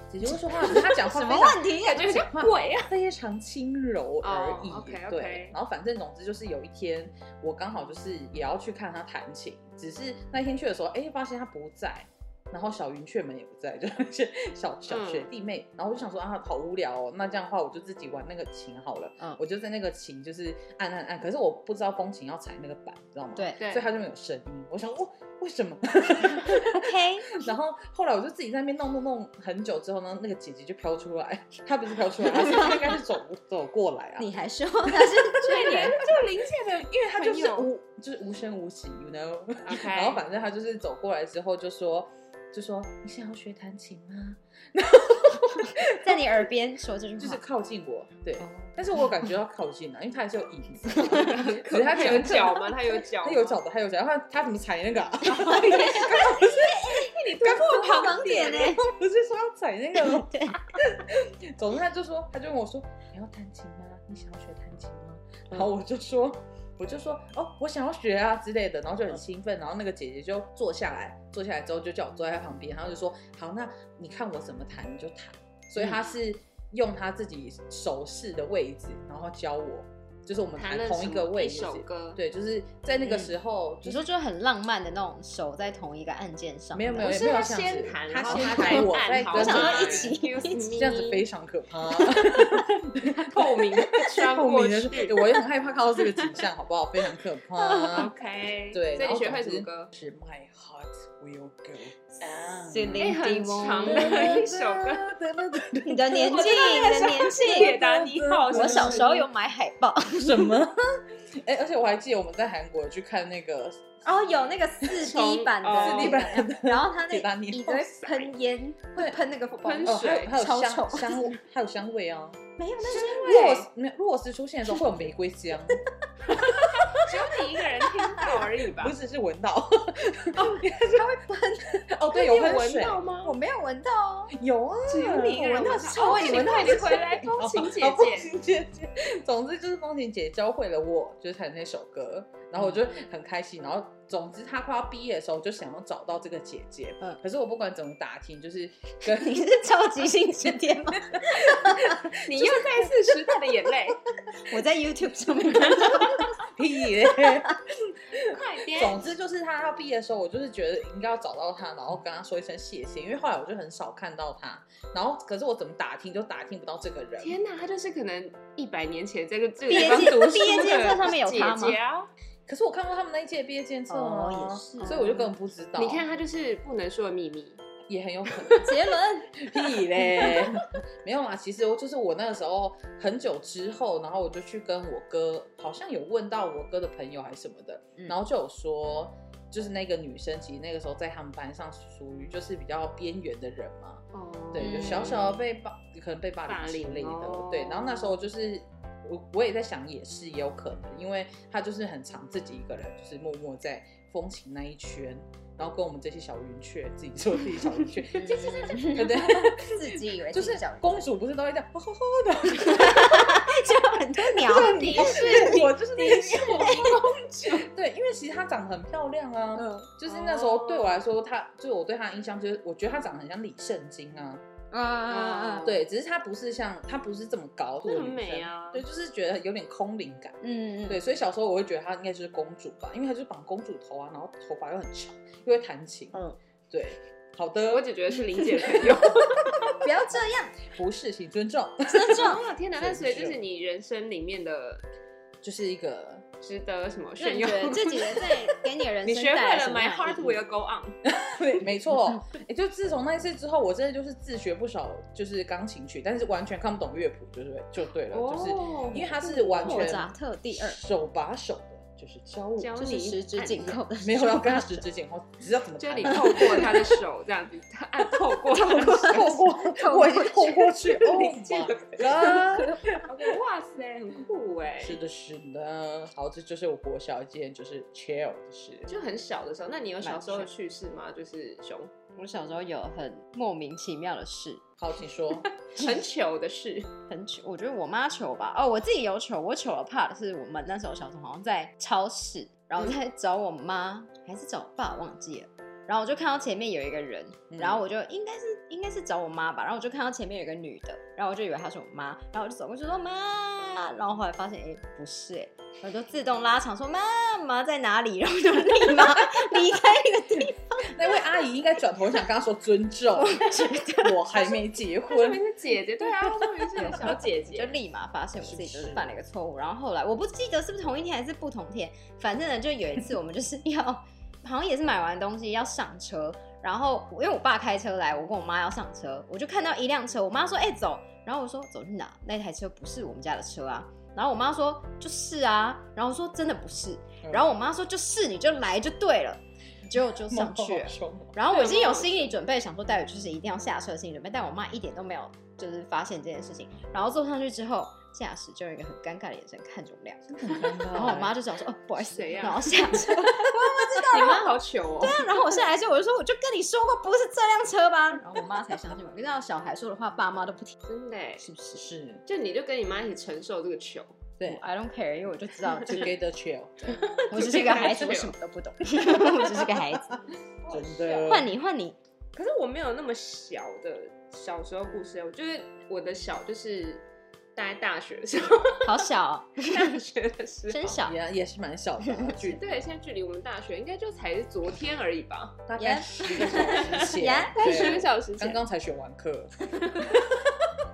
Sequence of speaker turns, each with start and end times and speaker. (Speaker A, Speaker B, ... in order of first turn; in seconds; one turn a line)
Speaker A: 0.1-34.3
Speaker B: 0.6-2.1
Speaker C: 1.8-2.9
Speaker C: 4.2-5.6
Speaker C: 14.9-15.3
Speaker C: 23.6-23.9
Speaker B: 26.5-27.4
Speaker B: 34.2-36.0
Speaker A: 34.9-36.2
Speaker C: 35.4-37.7
Speaker A: 36.8-46.4
Speaker C: 39.6-40.2
Speaker B: 45.9-47.4
Speaker A: 47.2-57.8
Speaker C: 51.0-53.6
Speaker C: 55.4-58.8
Speaker B: 55.4-58.8
Speaker A: 58.4-84.1
Speaker B: 60.0-60.6
Speaker B: 75.8-76.1
Speaker C: 80.6-82.2
Speaker B: 83.0-83.3
Speaker B: 83.8-87.2
Speaker A: 86.7-90.2
Speaker C: 87.0-91.3
Speaker B: 88.3-90.7
Speaker A: 90.7-98.1
Speaker B: 92.2-92.5
Speaker C: 93.1-95.2
Speaker C: 97.5-99.9
Speaker A: 98.7-103.2
Speaker B: 102.7-104.3
Speaker C: 103.0-105.1
Speaker A: 103.8-109.1
Speaker B: 105.8-107.7
Speaker C: 106.1-109.2
Speaker B: 108.5-110.6
Speaker A: 110.2-113.9
Speaker B: 114.0-121.3
Speaker C: 115.0-116.3
Speaker A: 115.8-118.3
Speaker C: 119.6-120.3
Speaker A: 119.8-122.4
Speaker B: 122.6-123.6
Speaker C: 122.8-123.7
Speaker A: 123.2-127.2
Speaker C: 126.3-128.9
Speaker A: 128.4-131.2
Speaker B: 130.4-131.9
Speaker A: 131.8-133.0
Speaker C: 132.1-133.3
Speaker B: 133.2-134.3
Speaker A: 134.3-149.6
Speaker C: 134.9-138.3
Speaker B: 135.4-137.0
Speaker B: 149.1-152.1
Speaker A: 151.1-152.7
Speaker C: 152.2-154.0
Speaker B: 154.3-156.3
Speaker A: 156.4-167.4
Speaker B: 157.2-157.5
Speaker C: 158.2-159.0
Speaker C: 167.2-172.1
Speaker B: 169.7-171.8
Speaker A: 172.5-176.0
Speaker B: 173.9-175.1
Speaker C: 174.8-177.6
Speaker A: 177.9-178.7
Speaker B: 178.6-180.4
Speaker A: 179.4-213.5
Speaker C: 194.1-195.3
Speaker B: 194.6-195.4
Speaker C: 196.4-198.1
Speaker C: 208.1-209.1
Speaker B: 208.1-211.1
Speaker B: 212.6-215.7
Speaker A: 214.3-224.4
Speaker C: 214.4-217.7
Speaker B: 216.5-217.0
Speaker B: 219.5-219.9
Speaker C: 220.1-221.1
Speaker B: 224.7-225.8
Speaker C: 225.1-225.8
Speaker A: 225.6-237.9
Speaker C: 227.8-228.8
Speaker B: 230.4-231.0
Speaker C: 237.7-239.8
Speaker A: 238.4-239.2
Speaker B: 239.8-240.6
Speaker A: 240.7-243.4
Speaker B: 241.9-242.4
Speaker C: 242.1-244.8
Speaker A: 245.4-246.2
Speaker C: 246.4-248.4
Speaker B: 247.2-250.4
Speaker C: 249.0-250.9
Speaker A: 251.1-262.8
Speaker C: 258.1-260.0
Speaker B: 259.6-260.8
Speaker C: 262.6-263.8
Speaker B: 262.8-264.8
Speaker A: 263.9-267.0
Speaker C: 265.8-269.4
Speaker B: 266.3-266.7
Speaker B: 268.5-270.9
Speaker A: 268.6-273.4
Speaker C: 270.8-272.4
Speaker B: 272.2-272.9
Speaker C: 273.0-275.0
Speaker A: 274.8-278.9
Speaker C: 278.9-281.9
Speaker B: 280.0-280.5
Speaker B: 282.1-284.6
Speaker A: 284.8-285.5
Speaker C: 285.4-286.9
Speaker B: 287.1-311.1
Speaker A: 297.5-297.8
Speaker A: 310.8-315.4
Speaker B: 313.1-314.5
Speaker C: 315.1-317.8
Speaker A: 316.8-317.2
Speaker B: 316.8-360.8
Speaker A: 318.4-319.1
Speaker A: 337.2-337.5
Speaker A: 340.2-341.3
Speaker C: 341.5-342.3
Speaker A: 350.3-351.4
Speaker C: 352.0-353.2
Speaker C: 354.0-355.3
Speaker C: 360.9-361.5
Speaker B: 361.4-361.9
Speaker A: 361.8-362.2
Speaker C: 362.3-364.2
Speaker A: 364.4-364.6
Speaker B: 364.4-366.1
Speaker A: 365.9-367.1
Speaker C: 366.9-368.3
Speaker B: 367.3-370.2
Speaker A: 369.0-370.0
Speaker C: 370.6-371.4
Speaker A: 370.7-371.5
Speaker B: 371.2-372.0
Speaker C: 372.4-377.0
Speaker C: 377.5-379.1
Speaker B: 378.8-380.0
Speaker C: 379.6-381.0
Speaker B: 380.7-381.1
Speaker A: 381.0-382.6
Speaker C: 382.4-385.6
Speaker A: 385.7-390.8
Speaker B: 385.8-388.0
Speaker C: 386.5-388.6
Speaker C: 389.8-390.2